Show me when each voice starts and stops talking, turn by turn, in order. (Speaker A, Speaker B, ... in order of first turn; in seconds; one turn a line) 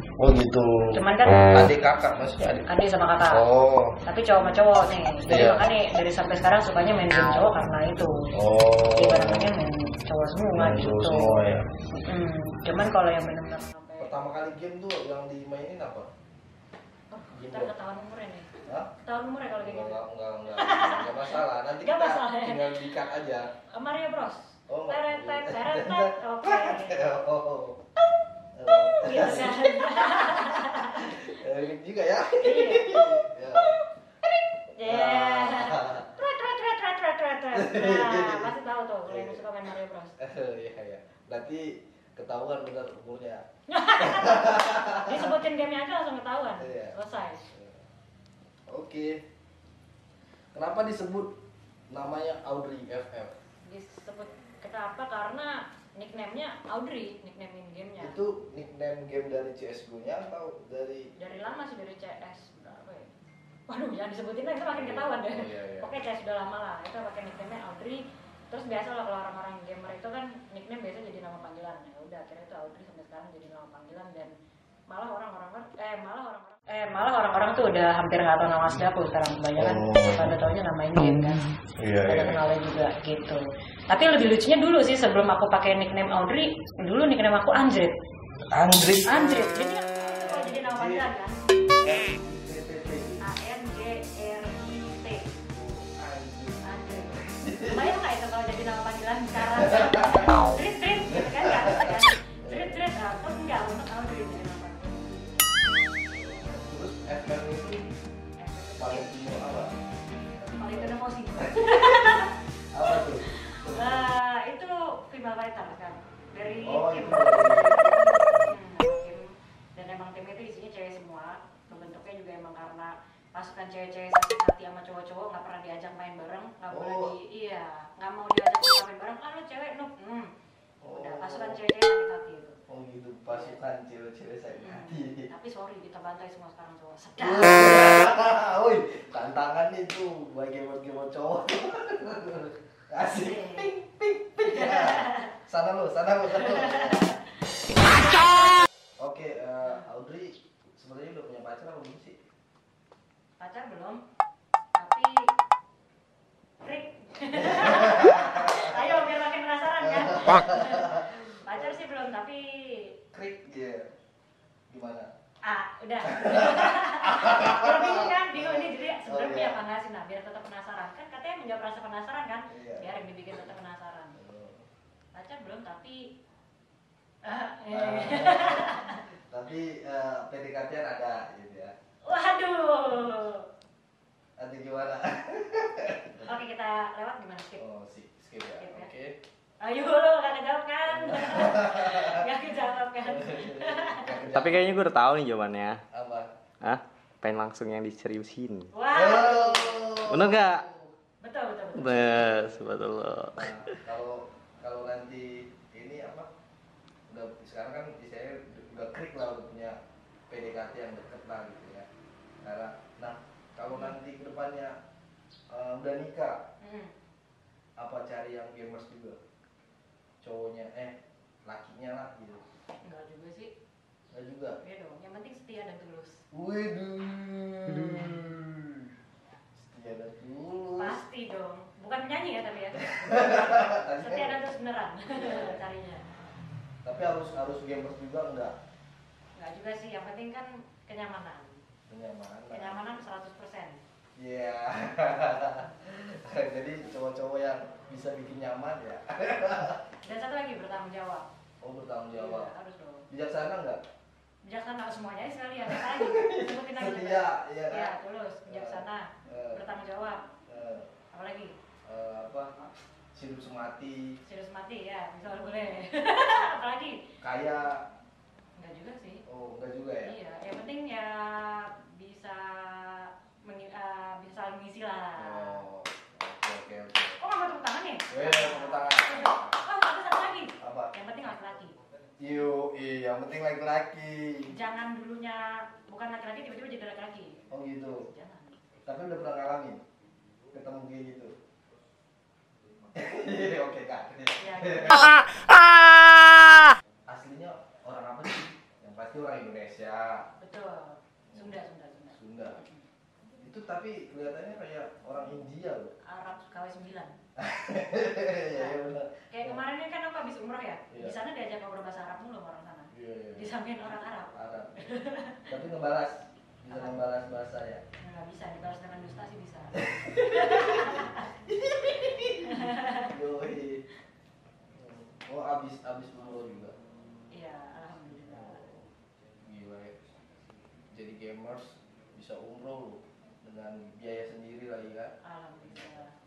Speaker A: 0.2-1.0
Speaker B: 0.9-1.7
Speaker A: 1.5-2.7
Speaker B: 2.7-3.4
Speaker A: 3.3-4.0
Speaker B: 4.0-8.3
Speaker A: 5.3-5.7
Speaker A: 8.3-9.5
Speaker B: 9.0-14.2
Speaker A: 10.5-11.7
Speaker A: 14.0-16.1
Speaker B: 17.1-18.5
Speaker A: 17.3-17.7
Speaker B: 19.0-20.0
Speaker A: 19.5-23.5
Speaker B: 20.6-22.9
Speaker B: 23.7-27.0
Speaker A: 24.7-27.8
Speaker A: 28.6-33.8
Speaker B: 29.0-31.2
Speaker B: 32.4-33.8
Speaker B: 34.7-40.2
Speaker A: 34.8-36.1
Speaker A: 37.5-38.5
Speaker A: 39.1-39.5
Speaker A: 40.2-43.5
Speaker B: 43.7-47.4
Speaker A: 44.0-45.4
Speaker A: 46.6-47.0
Speaker A: 47.5-47.8
Speaker A: 48.7-49.2
Speaker A: 50.5-51.3
Speaker A: 51.9-53.3
Speaker B: 53.6-58.2
Speaker A: 58.0-61.1
Speaker B: 61.2-63.1
Speaker B: 63.7-74.3
Speaker A: 64.7-65.9
Speaker B: 74.9-81.5
Speaker A: 79.6-80.4
Speaker A: 81.8-82.4
Speaker B: 82.1-88.0
Speaker A: 88.5-89.5
Speaker B: 89.1-91.4
Speaker A: 90.2-91.1
Speaker A: 91.8-93.2
Speaker B: 93.2-95.3
Speaker A: 95.5-98.0
Speaker B: 96.6-105.5
Speaker A: 99.4-100.3
Speaker A: 101.1-102.7
Speaker A: 106.1-107.8
Speaker B: 108.4-109.1
Speaker A: 108.8-109.7
Speaker A: 110.3-114.1
Speaker B: 110.6-112.3
Speaker B: 112.9-117.9
Speaker A: 116.6-118.5
Speaker B: 118.4-130.3
Speaker A: 126.7-127.1
Speaker A: 130.8-131.6
Speaker B: 130.9-132.6
Speaker A: 132.7-135.3
Speaker B: 133.3-133.6
Speaker B: 134.6-138.1
Speaker A: 137.2-147.2
Speaker B: 143.1-143.7
Speaker B: 144.4-145.3
Speaker B: 146.3-148.6
Speaker A: 149.0-152.2
Speaker B: 153.4-154.0
Speaker B: 154.8-155.2
Speaker B: 156.6-162.9
Speaker A: 157.3-159.1
Speaker A: 159.8-161.8
Speaker A: 163.1-163.9
Speaker A: 164.7-165.1
Speaker B: 165.4-174.2
Speaker A: 166.0-169.6
Speaker A: 172.5-173.0
Speaker A: 174.2-174.7
Speaker B: 175.1-176.1
Speaker B: 177.2-179.1
Speaker A: 177.7-181.7
Speaker B: 182.1-183.4
Speaker A: 184.4-186.3
Speaker B: 186.2-187.6
Speaker A: 187.6-189.2
Speaker B: 188.6-188.9
Speaker B: 189.6-194.2
Speaker A: 190.9-192.3
Speaker A: 193.0-194.8
Speaker C: 194.3-195.8
Speaker A: 195.9-196.3
Speaker C: 196.6-198.7
Speaker B: 198.7-200.0
Speaker A: 198.9-200.9
Speaker C: 200.1-200.6
Speaker B: 201.2-202.2
Speaker C: 201.8-203.7
Speaker A: 201.9-202.6
Speaker A: 203.4-206.3
Speaker A: 207.1-209.8
Speaker A: 210.3-211.9
Speaker A: 212.4-214.8
Speaker B: 213.7-214.0
Speaker A: 215.5-216.4
Speaker B: 216.6-217.0
Speaker A: 217.8-219.2
Speaker A: 220.2-222.4
Speaker B: 222.8-223.5
Speaker A: 224.1-224.6
Speaker B: 224.6-226.2
Speaker A: 226.3-228.9
Speaker A: 229.6-231.0
Speaker B: 230.8-236.1
Speaker A: 232.8-234.4
Speaker A: 235.1-235.6
Speaker A: 236.8-238.6
Speaker B: 239.3-241.6
Speaker A: 241.9-242.8
Speaker B: 242.5-243.8
Speaker A: 244.2-249.8
Speaker B: 250.0-251.3
Speaker A: 251.6-252.5
Speaker B: 252.2-253.1
Speaker A: 253.1-253.8
Speaker B: 254.5-260.3
Speaker A: 255.7-257.9
Speaker A: 258.5-259.7
Speaker A: 260.5-260.9
Speaker B: 261.1-261.6
Speaker A: 261.9-262.5
Speaker A: 263.1-264.2
Speaker B: 264.2-267.1
Speaker A: 267.2-267.8
Speaker B: 268.6-269.2
Speaker A: 269.3-270.2
Speaker B: 270.0-275.6
Speaker A: 275.2-277.2
Speaker B: 277.2-281.8
Speaker A: 278.1-279.6
Speaker A: 280.6-280.9
Speaker A: 282.2-284.6
Speaker B: 284.5-288.6
Speaker A: 287.5-288.1
Speaker A: 288.9-289.8
Speaker A: 290.5-291.3
Speaker A: 292.9-295.3
Speaker B: 294.4-295.3
Speaker A: 297.1-300.2
Speaker B: 300.4-302.8
Speaker A: 301.3-301.6
Speaker A: 302.1-302.6
Speaker A: 303.4-305.9
Speaker B: 306.1-307.1
Speaker A: 307.4-309.6
Speaker B: 308.5-315.5
Speaker A: 310.9-311.2
Speaker A: 312.9-313.5
Speaker A: 314.3-314.9
Speaker A: 315.5-317.8
Speaker B: 316.7-317.0
Speaker B: 318.0-321.3
Speaker A: 319.8-323.8
Speaker B: 322.4-323.1
Speaker A: 324.7-326.7
Speaker B: 327.3-328.6
Speaker A: 328.3-328.9
Speaker A: 329.4-330.0
Speaker A: 330.9-335.1
Speaker B: 335.2-336.1